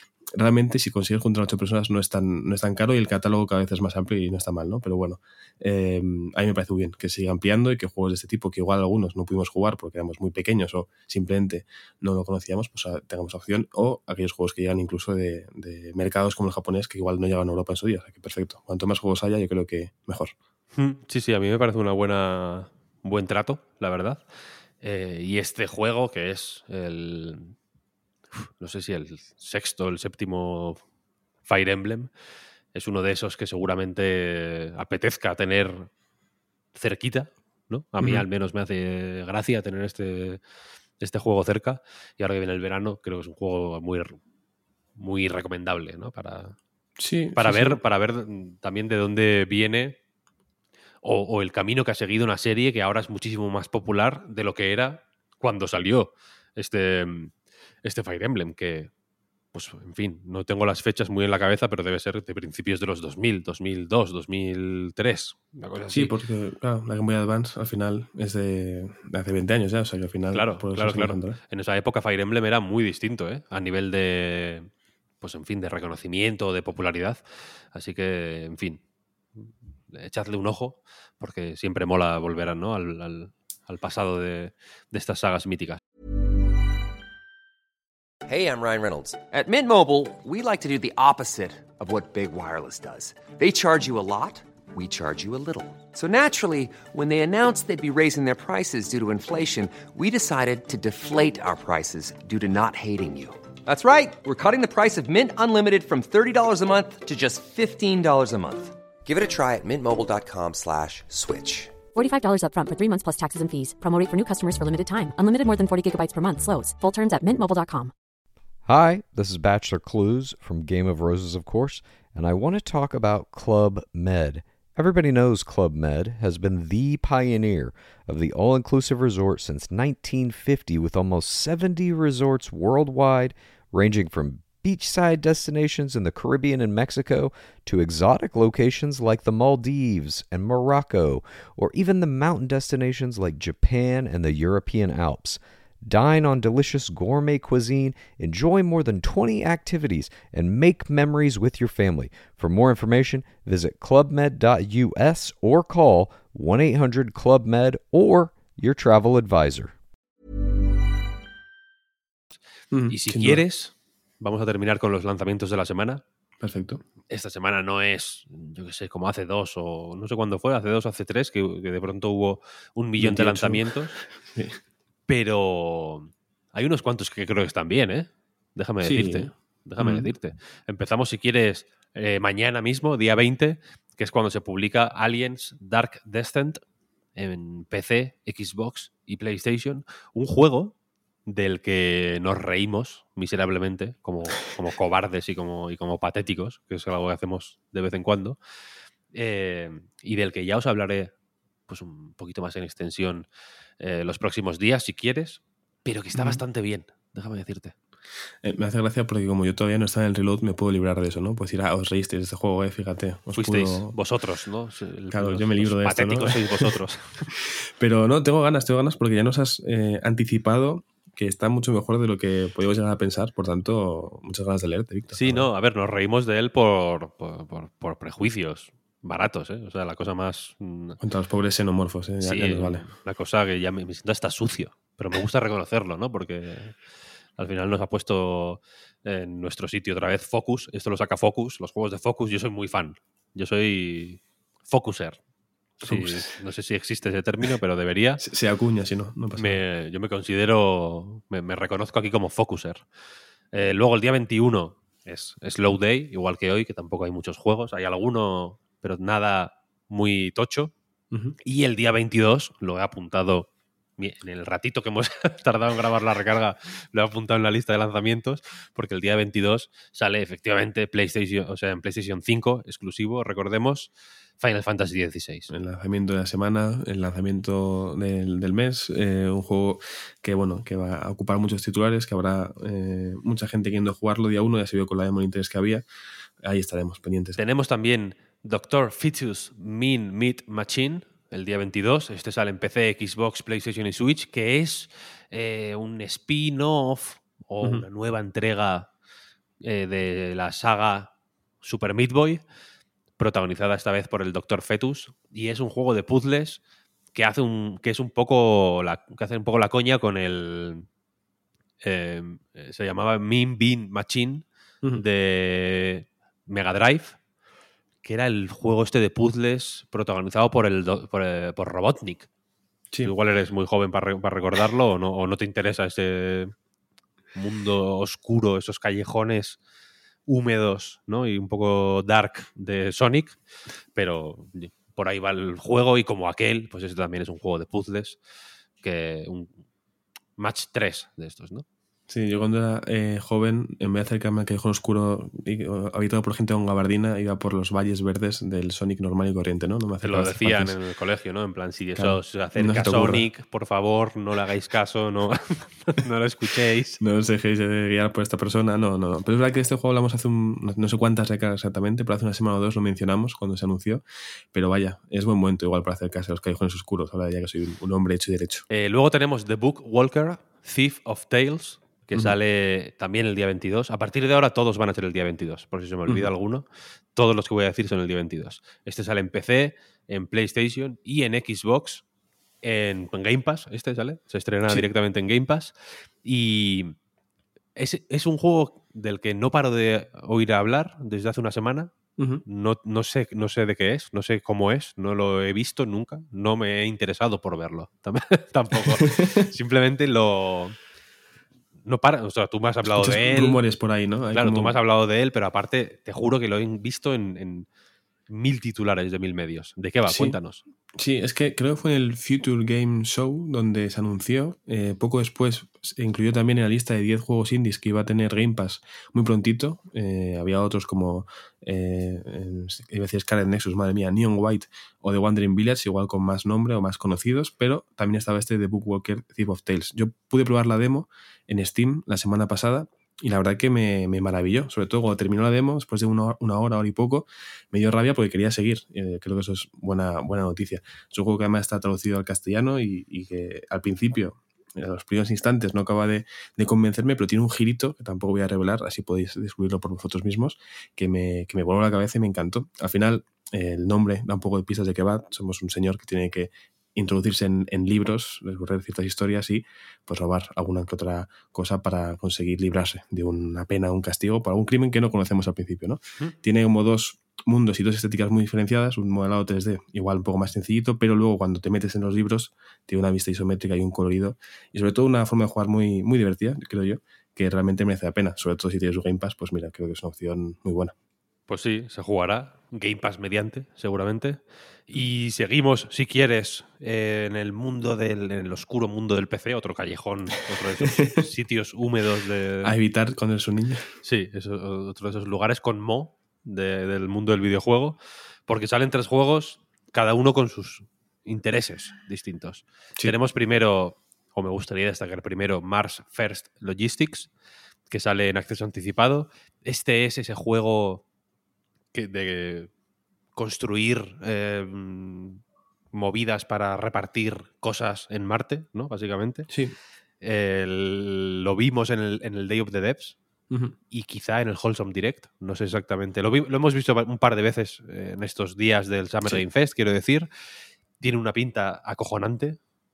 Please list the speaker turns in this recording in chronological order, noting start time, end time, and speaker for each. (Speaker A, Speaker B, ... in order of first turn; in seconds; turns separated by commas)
Speaker A: 0.3-20.3, Speaker B: 20.7-24.2, Speaker B: 24.8-27.6, Speaker B: 28.3-30.8, Speaker B: 31.4-32.1, Speaker B: 32.7-35.9, Speaker B: 36.8-40.4, Speaker A: 38.0-38.2, Speaker B: 41.0-44.2, Speaker B: 45.0-46.5, Speaker A: 47.0-47.8, Speaker B: 47.4-50.0, Speaker B: 51.0-57.3, Speaker B: 57.8-58.9, Speaker B: 59.5-66.1, Speaker A: 65.9-71.4, Speaker B: 70.3-74.7, Speaker B: 75.2-78.8, Speaker B: 79.4-85.8, Speaker C: 88.3-111.8, Speaker D: 111.9-117.9, Speaker E: 118.7-159.7, Speaker A: 162.7-163.4, Speaker B: 162.9-166.0, Speaker A: 166.4-166.8, Speaker B: 167.1-174.0, Speaker A: 173.0-173.6, Speaker A: 174.3-174.6, Speaker B: 175.1-186.6, Speaker A: 178.8-180.1, Speaker B: 187.2-190.7, Speaker B: 191.2-198.4, Speaker B: 199.1-201.1, Speaker B: 201.7-203.3, Speaker B: 203.8-207.7, Speaker A: 206.1-206.4, Speaker A: 208.4-213.9, Speaker B: 213.3-217.3, Speaker A: 215.1-216.7, Speaker A: 217.4-225.5, Speaker B: 225.1-231.0, Speaker A: 231.0-232.9, Speaker B: 232.2-236.8, Speaker B: 237.4-245.2, Speaker B: 245.8-248.2, Speaker A: 245.8-246.3, Speaker A: 248.2-249.6, Speaker B: 249.4-252.8, Speaker B: 253.5-260.7, Speaker B: 261.4-275.5, Speaker A: 275.5-285.8, Speaker A: 286.4-287.4, Speaker B: 287.4-298.9, Speaker B: 299.6-302.4, Speaker B: 303.2-306.6, Speaker B: 307.1-310.9, Speaker B: 311.8-317.1, Speaker B: 318.0-322.3, Speaker B: 323.0-326.5, Speaker B: 327.4-329.6, Speaker B: 330.2-333.4, Speaker B: 333.9-338.2, Speaker B: 338.8-339.5, Speaker B: 340.4-341.6, Speaker A: 342.1-350.8, Speaker B: 350.0-357.0, Speaker A: 351.9-353.2, Speaker A: 357.0-368.6, Speaker B: 368.7-382.0, Speaker B: 382.6-386.9, Speaker B: 387.8-391.9, Speaker A: 392.2-392.4, Speaker B: 392.5-400.8, Speaker A: 399.0-399.5, Speaker B: 401.9-403.6, Speaker A: 402.9-404.8, Speaker B: 404.3-407.7, Speaker B: 408.3-410.6, Speaker A: 410.1-410.4, Speaker A: 411.0-480.9, Speaker B: 481.5-492.8, Speaker A: 490.8-491.2, Speaker A: 492.6-493.9, Speaker B: 494.0-507.3, Speaker B: 507.9-511.0, Speaker B: 511.9-512.7, Speaker B: 513.4-515.4, Speaker B: 515.9-519.5, Speaker A: 519.5-519.8, Speaker B: 520.2-523.1, Speaker B: 523.9-530.3, Speaker B: 531.0-532.6